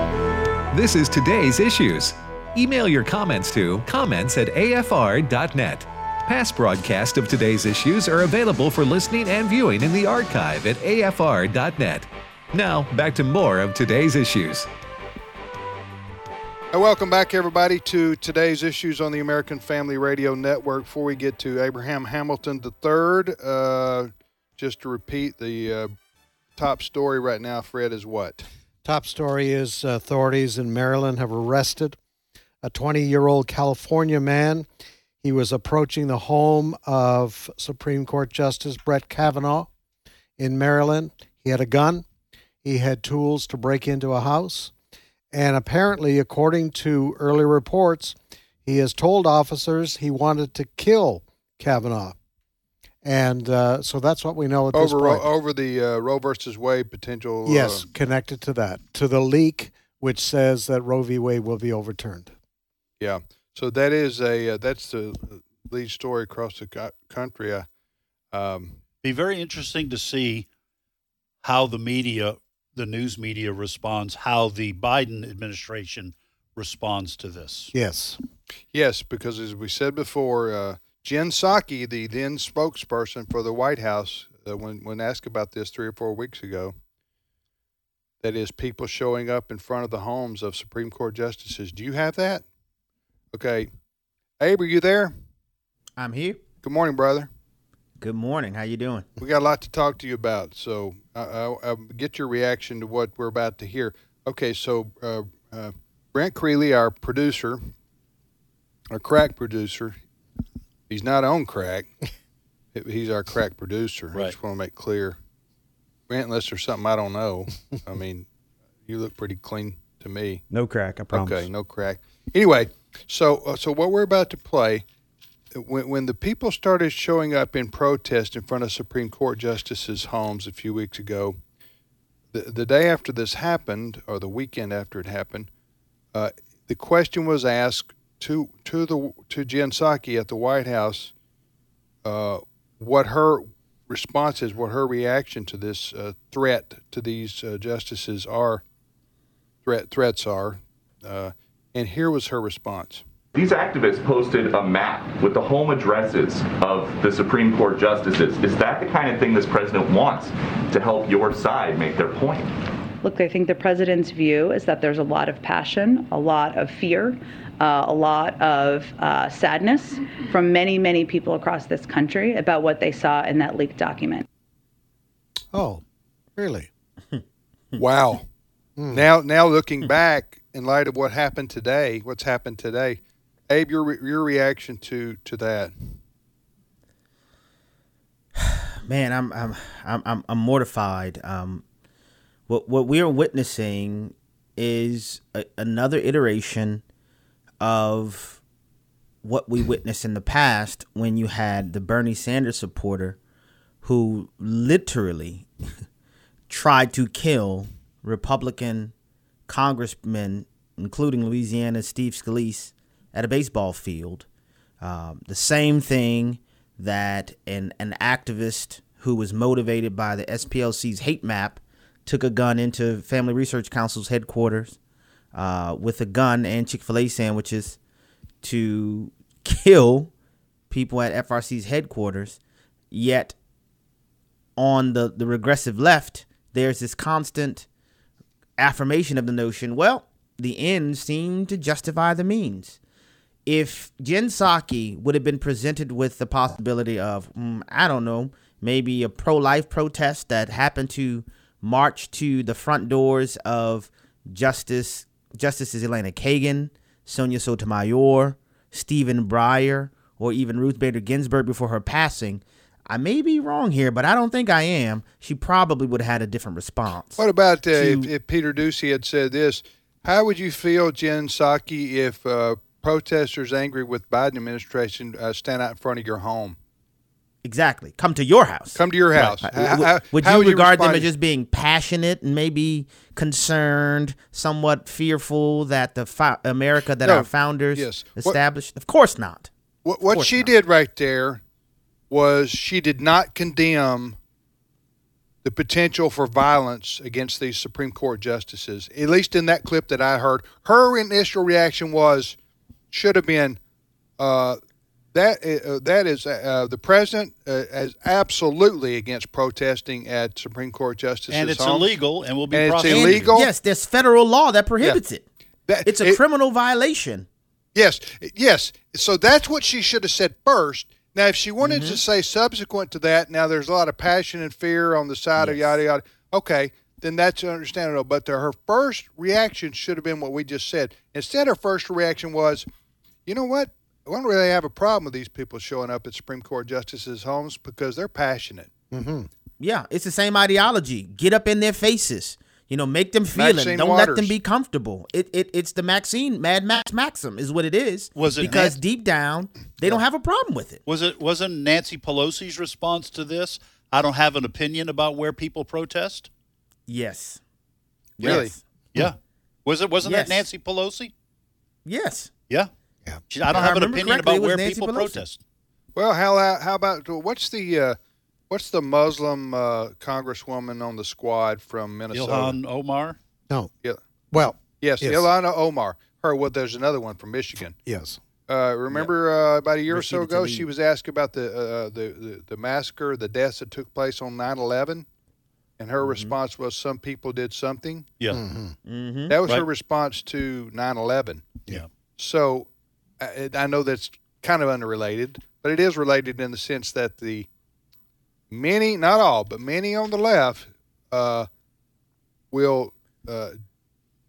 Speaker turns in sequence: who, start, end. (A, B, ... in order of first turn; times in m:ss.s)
0:00.7-0:14.7 A
0:16.7-0:25.9 B
0:26.6-0:28.4 B
0:28.8-0:32.0 C
0:32.6-0:34.7 C
0:35.2-0:39.7 C
0:40.4-0:42.0 C
0:42.6-0:44.7 C
0:45.3-0:52.2 C
0:53.0-0:55.3 C
0:54.7-0:57.8 B
0:57.4-1:02.3 C
1:03.0-1:07.7 B
1:08.3-1:08.8 B
1:09.0-1:10.5 D
1:11.4-1:17.7 D
1:17.7-1:18.2 C
1:18.7-1:26.7 B
1:28.2-1:32.4 B
1:33.3-1:33.7 B
1:34.4-1:35.1 B
1:36.0-1:36.4 E
1:36.6-1:37.3 B
1:38.0-1:39.1 E
1:39.2-1:47.6 B
1:48.9-1:50.0 B
1:50.9-1:51.9 B
1:52.7-1:55.2 B
1:56.1-1:58.2 B
1:58.8-2:00.4 B
2:00.5-2:01.5 E
2:01.1-2:04.8 B
2:05.5-2:11.4 B
2:12.3-2:15.5 B
2:16.1-2:21.1 B
2:22.0-2:28.6 B
2:29.6-2:33.0 B
2:33.3-2:42.5 F
2:43.0-2:54.2 G
2:55.5-2:55.8 C
2:56.4-2:56.7 C
2:57.8-2:58.2 B
2:58.8-2:59.0 C
2:58.9-3:05.7 B
3:08.4-3:11.6 E
3:12.5-3:16.8 E
3:17.6-3:18.4 E
3:19.2-3:23.2 E
3:23.8-3:25.5 E
3:26.5-3:28.9 E
3:29.5-3:34.2 E
3:34.8-3:44.8 E
3:45.3-3:47.8 E
3:48.4-3:50.1 E
3:50.7-3:52.4 E
3:52.9-3:53.3 E
3:54.6-3:57.6 E
3:58.6-4:02.8 E
4:03.5-4:28.1 E
4:27.2-4:36.6 B
4:37.4-4:49.5 E
4:38.8-4:41.1 B
4:47.0-4:48.4 B
4:49.8-4:51.4 B
4:50.0-4:50.5 E
4:52.1-4:54.2 B
4:55.4-5:02.4 B
5:02.9-5:03.6 B
5:04.2-5:04.6 B
5:05.1-5:11.9 B
5:11.3-5:13.4 D
5:12.5-5:13.5 B
5:12.8-5:15.2 E
5:15.7-5:16.2 B
5:15.8-5:17.3 E
5:17.7-5:32.6 B
5:21.6-5:22.0 E
5:25.4-5:25.8 E
5:33.2-5:38.7 B
5:38.9-5:39.3 C
5:39.6-5:50.8 E
5:43.3-5:44.3 B
5:48.2-5:48.7 D
5:48.4-5:48.7 B
5:50.8-5:56.3 D
5:56.9-5:57.4 E
5:58.2-5:58.6 E
5:58.2-5:58.5 B
5:58.9-6:01.1 D
6:00.0-6:00.4 E
6:01.8-6:02.3 E
6:03.3-6:05.4 D
6:03.5-6:05.2 E
6:05.9-6:08.0 B
6:08.5-6:12.6 B
6:12.1-6:13.2 D
6:14.3-6:15.3 C
6:14.8-6:17.8 B
6:17.8-6:18.2 C
6:18.5-6:25.0 B
6:20.0-6:20.6 E
6:25.8-6:28.1 B
6:26.0-6:26.3 E
6:28.3-6:28.8 C
6:28.8-6:29.4 E
6:29.3-6:31.6 B
6:32.2-6:32.7 B
6:33.2-6:37.5 B
6:38.5-6:41.5 B
6:42.5-6:43.6 B